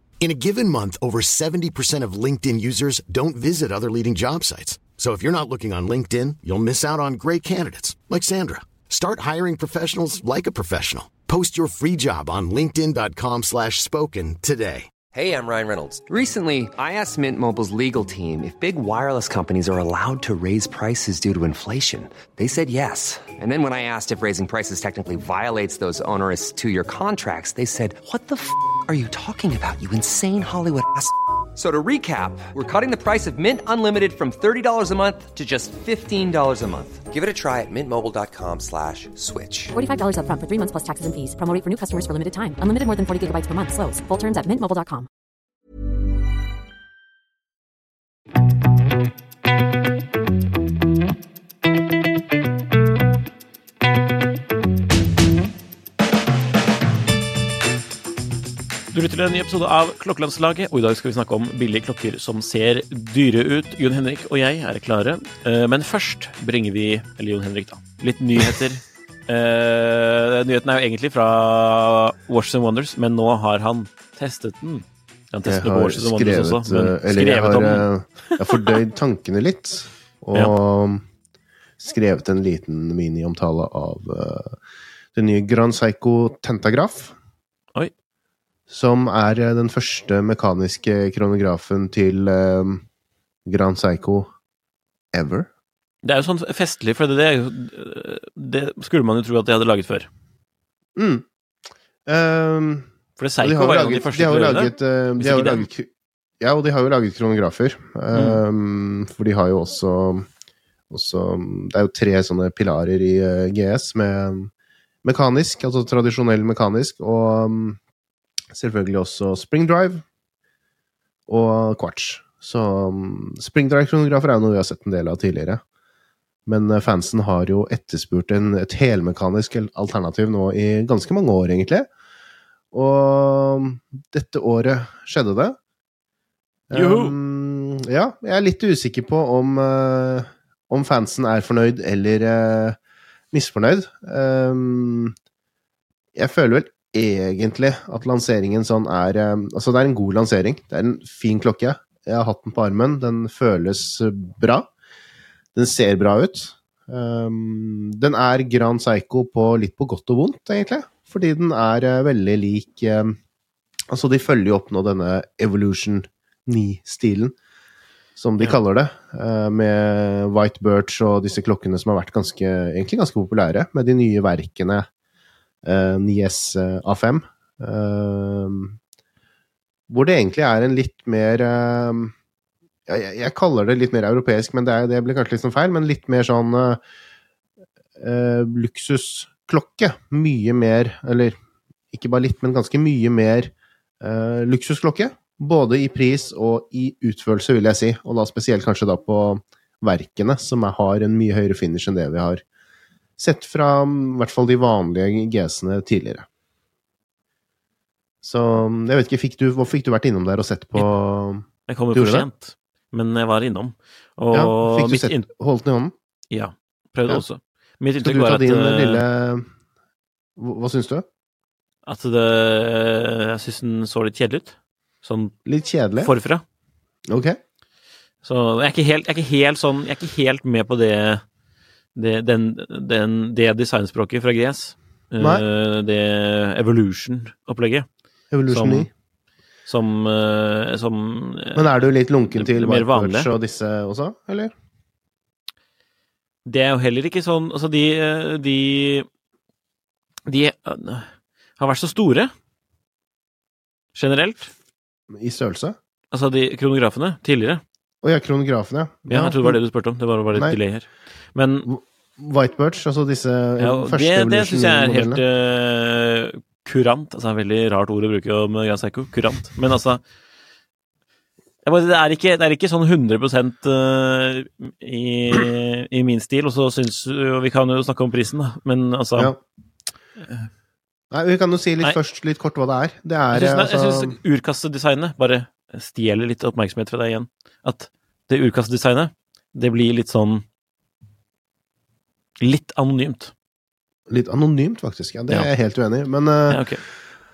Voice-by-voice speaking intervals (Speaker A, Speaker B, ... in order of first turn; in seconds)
Speaker A: 0.2-14.9
Speaker B: 15.1-39.8
Speaker C: 39.7-45.1
Speaker D: 58.9-77.9, 96.0-100.1, 103.2-105.7, 108.1-108.4, 136.7-137.2, 211.7-215.3, 216.3-219.1, 221.9-225.3, 226.0-226.4, 228.2-231.2, 232.0-237.9, 238.5-238.9, 239.7-243.3, 246.5-249.1, 250.3-252.3, 253.9-254.5, 256.1-257.6, 259.1-261.7, 263.6-270.0, 271.6-279.3, 283.3-290.4, 292.4-293.3, 296.5-296.8
Speaker E: 75.4-81.0, 81.8-84.6, 85.2-87.2, 88.7-92.8, 93.5-94.3, 95.1-95.5, 101.0-101.3, 102.1-105.9, 106.4-110.3, 110.9-114.5, 115.0-117.8, 118.5-120.0, 121.3-125.6, 126.5-131.9, 132.7-135.6, 136.7-142.8, 143.3-145.2, 146.2-154.7, 155.6-163.2, 163.9-167.3, 168.2-174.9, 175.6-178.8, 179.9-182.1, 182.9-186.8, 188.0-191.4, 191.9-202.4, 203.2-206.3, 208.2-212.3, 214.3-215.9, 218.0-219.5, 220.4-221.1, 225.4-226.1, 227.1-227.4, 235.2-235.4, 238.3-238.9, 241.6-244.5, 255.1-255.8, 258.0-259.6, 261.6-265.2, 281.1-284.2, 294.1-296.7